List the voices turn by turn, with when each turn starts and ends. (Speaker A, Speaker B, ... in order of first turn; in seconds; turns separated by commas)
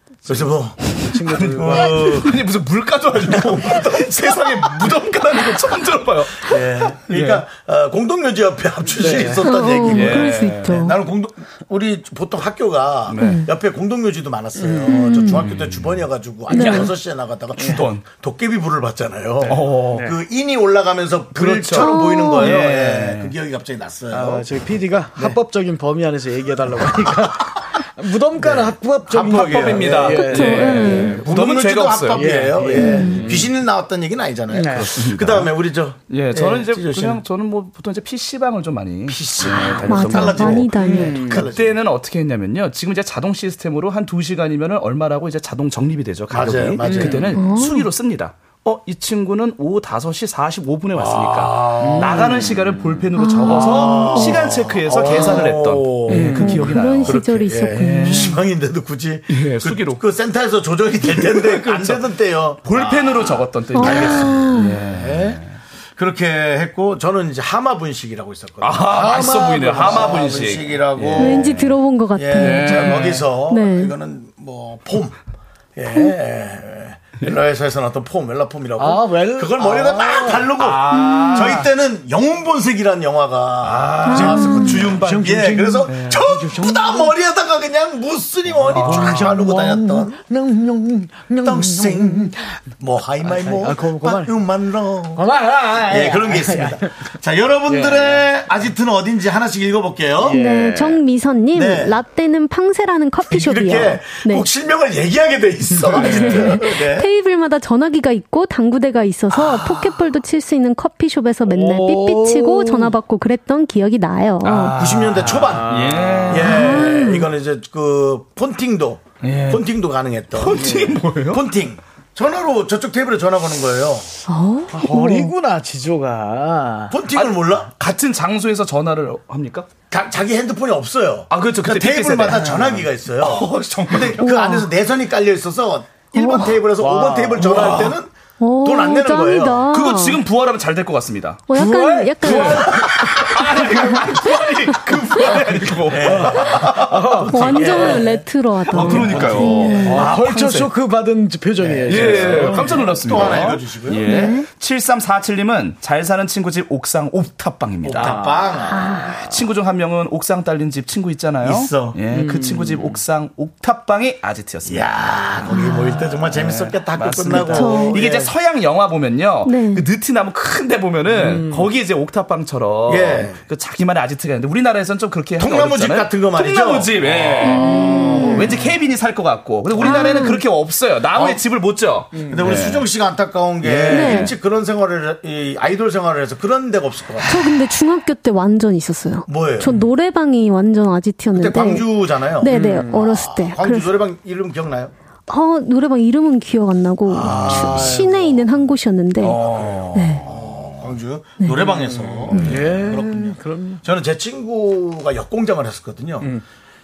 Speaker A: 0.2-2.4, Speaker B: 0.3-2.2, Speaker C: 1.4-7.5, Speaker A: 3.3-5.0, Speaker A: 6.4-24.5, Speaker B: 9.0-9.5, Speaker D: 9.4-11.0, Speaker C: 9.8-10.9, Speaker C: 13.1-13.5, Speaker D: 13.1-13.5, Speaker B: 14.6-15.3, Speaker D: 14.9-15.5, Speaker C: 15.4-16.0, Speaker D: 16.5-16.9, Speaker C: 16.5-16.9, Speaker B: 17.6-17.9, Speaker C: 17.6-18.0, Speaker C: 19.4-20.1, Speaker B: 19.9-20.2, Speaker C: 21.3-23.3, Speaker D: 21.7-22.6, Speaker B: 22.4-23.2, Speaker B: 24.1-31.3, Speaker A: 27.0-27.4, Speaker A: 28.4-30.2, Speaker C: 29.2-33.5, Speaker D: 30.2-31.3, Speaker A: 30.9-37.2, Speaker B: 32.1-33.4, Speaker D: 32.7-33.3, Speaker B: 34.5-35.0, Speaker C: 34.7-35.6, Speaker C: 36.1-58.4, Speaker A: 39.1-41.8, Speaker D: 39.4-41.3, Speaker B: 40.8-41.5, Speaker A: 46.3-47.4, Speaker B: 46.8-47.4, Speaker D: 47.3-47.9, Speaker A: 51.0-52.6, Speaker B: 51.8-52.7, Speaker D: 53.1-55.4, Speaker A: 53.5-65.4, Speaker B: 56.1-56.8, Speaker D: 56.3-58.5, Speaker C: 59.3-60.0, Speaker C: 61.1-62.1, Speaker C: 62.6-65.5, Speaker D: 63.7-64.8, Speaker A: 66.0-71.6, Speaker C: 68.6-71.8, Speaker B: 68.8-70.6, Speaker D: 71.1-74.0, Speaker A: 72.2-75.2, Speaker C: 72.3-73.3, Speaker A: 75.8-90.2, Speaker B: 78.8-80.5, Speaker C: 80.6-81.7, Speaker D: 81.0-81.2, Speaker C: 83.6-85.3, Speaker D: 84.1-84.8, Speaker B: 84.1-87.1, Speaker C: 85.9-86.2, Speaker C: 88.6-89.3, Speaker B: 88.7-92.4, Speaker A: 91.4-95.3, Speaker B: 93.2-94.3, Speaker B: 95.2-96.9, Speaker A: 95.9-100.4, Speaker B: 97.7-98.2, Speaker B: 100.2-101.0, Speaker D: 100.3-104.5, Speaker A: 101.5-102.0, Speaker A: 103.3-107.1, Speaker C: 105.7-106.5, Speaker D: 105.9-114.9, Speaker A: 109.3-110.0, Speaker B: 111.5-112.9, Speaker C: 114.4-116.7, Speaker A: 114.7-124.1, Speaker B: 115.3-116.5, Speaker D: 116.4-117.3, Speaker C: 119.2-119.7, Speaker C: 120.3-121.4, Speaker B: 120.6-121.0, Speaker D: 124.3-125.3, Speaker B: 124.7-127.0, Speaker A: 126.9-127.7, Speaker C: 127.1-129.7, Speaker A: 129.9-139.7, Speaker C: 131.3-134.3, Speaker B: 132.3-132.8, Speaker D: 134.2-134.7, Speaker D: 136.1-136.6, Speaker B: 136.8-137.9, Speaker C: 137.4-138.0, Speaker D: 138.4-140.2, Speaker C: 139.7-141.4, Speaker D: 141.5-145.4, Speaker B: 141.5-144.2, Speaker C: 142.2-147.9, Speaker A: 145.8-150.7, Speaker B: 145.9-148.0, Speaker D: 147.3-150.1, Speaker C: 148.7-150.7, Speaker B: 148.8-153.3, Speaker A: 151.6-154.1, Speaker C: 151.8-158.2, Speaker D: 154.1-154.5, Speaker A: 157.8-158.9, Speaker B: 157.9-158.6, Speaker D: 158.7-159.3, Speaker C: 159.1-165.3, Speaker A: 161.4-162.0, Speaker B: 162.1-163.0, Speaker A: 164.7-168.3, Speaker D: 165.4-166.2, Speaker C: 166.1-182.9, Speaker D: 167.4-168.1, Speaker D: 169.4-169.9, Speaker B: 171.1-171.7, Speaker A: 172.9-173.4, Speaker A: 175.4-178.7, Speaker D: 177.4-178.6, Speaker A: 179.8-180.2, Speaker D: 179.8-180.4, Speaker A: 181.1-181.4, Speaker B: 182.2-182.5, Speaker A: 182.2-187.6, Speaker C: 183.6-184.4, Speaker D: 183.9-184.3, Speaker D: 187.2-194.1, Speaker A: 189.3-189.8, Speaker A: 191.3-194.9, Speaker B: 192.4-193.0, Speaker D: 195.3-199.4, Speaker A: 197.1-198.4, Speaker B: 197.2-197.9, Speaker C: 199.2-200.3, Speaker A: 199.2-206.3, Speaker D: 199.9-200.2, Speaker D: 201.4-201.7, Speaker B: 201.9-203.8